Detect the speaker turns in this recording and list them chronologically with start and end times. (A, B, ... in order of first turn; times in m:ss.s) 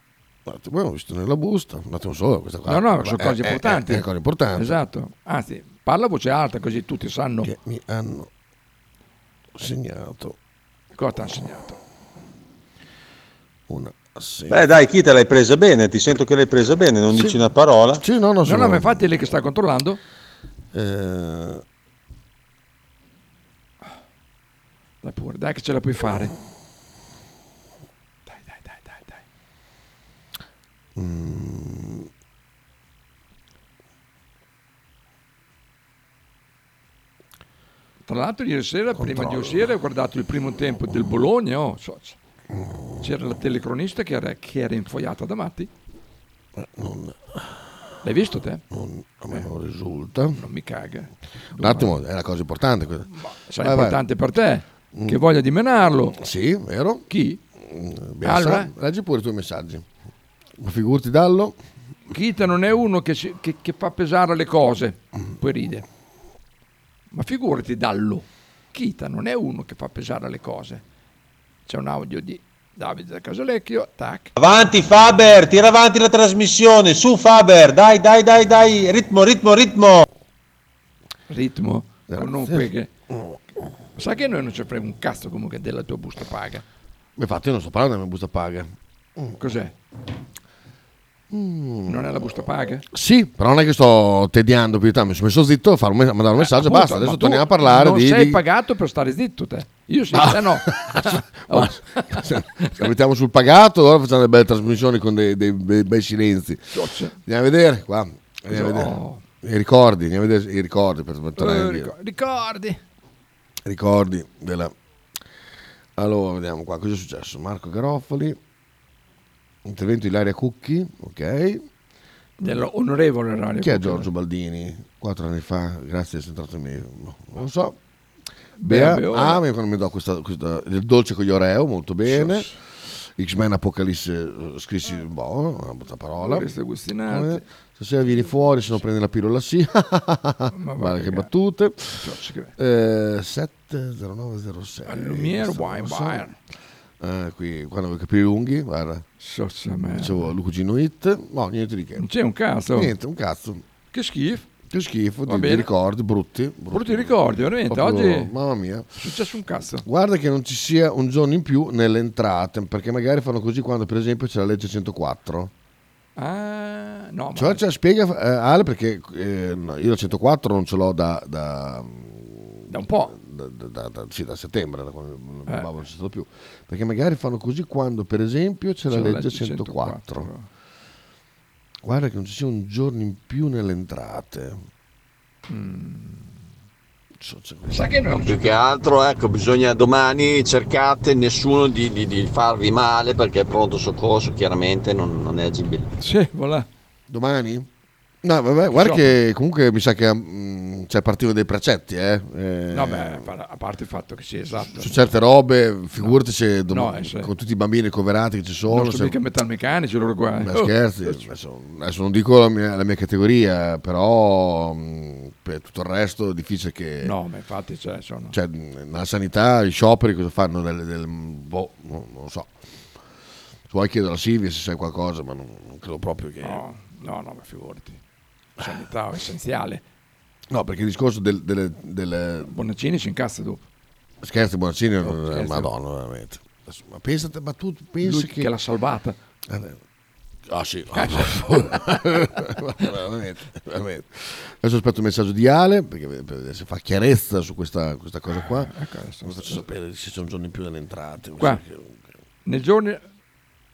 0:00.5-0:04.8 A
0:02.7-0:07.5 B
0:07.4-0:08.3 A
0:09.6-0:10.4 A
0:11.0-0:11.8 B
0:13.7-0:14.7 A
0:14.5-0:18.0 C
0:17.1-0:17.4 A
0:18.0-0:19.0 A
0:18.4-0:20.0 B
0:20.7-0:21.6 A
0:25.0-0:26.3 B
0:28.3-0:29.2 B
0:31.0-0:32.1 A
0:38.1-0:42.2 B
0:39.0-0:39.6 A
0:43.0-0:45.7 B
0:46.6-0:47.5 A
0:48.0-0:48.6 B
0:48.7-0:50.4 A
0:50.3-0:52.0 B
0:51.5-0:54.0 A
0:53.2-0:56.2 B
0:54.9-0:55.2 A
0:56.1-0:57.0 A
0:57.1-0:57.4 B
0:57.6-0:59.9 A
0:58.2-0:58.7 B
1:00.6-1:01.6 A
1:02.1-1:05.8 B
1:07.1-1:10.8 B
1:11.7-1:14.3 B
1:14.4-1:20.0 C
1:21.3-1:22.9 B
1:22.1-1:23.4 A
1:24.0-1:26.6 B
1:27.2-1:29.3 A
1:29.4-1:29.7 B
1:31.3-1:32.1 A
1:31.9-1:32.9 B
1:32.9-1:38.4 A
1:36.4-1:42.7 B
1:40.1-1:46.6 A
1:46.7-1:47.2 B
1:47.3-1:51.9 A
1:48.5-1:49.2 B
1:51.4-1:52.8 B
1:53.6-1:54.7 A
1:56.0-1:58.4 A
1:59.6-2:01.7 A
2:02.4-2:04.1 B
2:03.6-2:07.8 A
2:08.6-2:09.4 B
2:08.7-2:12.5 A
2:12.1-2:12.5 B
2:13.2-2:16.5 A
2:16.2-2:17.4 B
2:17.1-2:22.0 A
2:20.5-2:21.3 B
2:22.0-2:22.5 B
2:22.6-2:26.3 A
2:24.9-2:26.4 B
2:27.0-2:29.0 A
2:29.2-2:30.3 B
2:29.9-2:32.1 A
2:32.0-2:32.9 B
2:32.7-2:33.6 A
2:33.9-2:34.5 B
2:34.7-2:38.9 A
2:35.3-2:35.7 B
2:36.7-2:38.3 B
2:39.0-2:39.8 B
2:39.8-2:45.5 A
2:46.2-2:47.6 B
2:47.4-3:00.3 A
2:52.7-2:53.1 B
2:58.9-3:00.5 B
3:01.8-3:04.6 A
3:05.5-3:06.4 B
3:07.2-3:07.9 A
3:07.7-3:08.6 B
3:08.2-3:15.9 D
3:16.0-3:16.7 B
3:17.1-3:17.7 A
3:18.2-3:23.3 A
3:18.7-3:19.1 B
3:22.7-3:25.1 B
3:24.6-3:29.1 A
3:26.7-3:27.3 B
3:28.7-3:31.2 B
3:30.4-3:37.1 A
3:37.0-3:38.4 B
3:38.3-3:42.5 A
3:43.7-3:46.6 A
3:46.4-3:48.0 B
3:48.6-3:49.8 B
3:50.5-3:52.5 A
3:52.5-3:53.6 B
3:54.2-3:58.5 A
3:55.0-3:55.7 B
3:58.0-3:59.2 B
3:59.5-3:59.8 A
4:00.5-4:08.7 A
4:00.9-4:01.4 B
4:08.4-4:09.6 B
4:09.2-4:12.0 A
4:12.5-4:13.0 B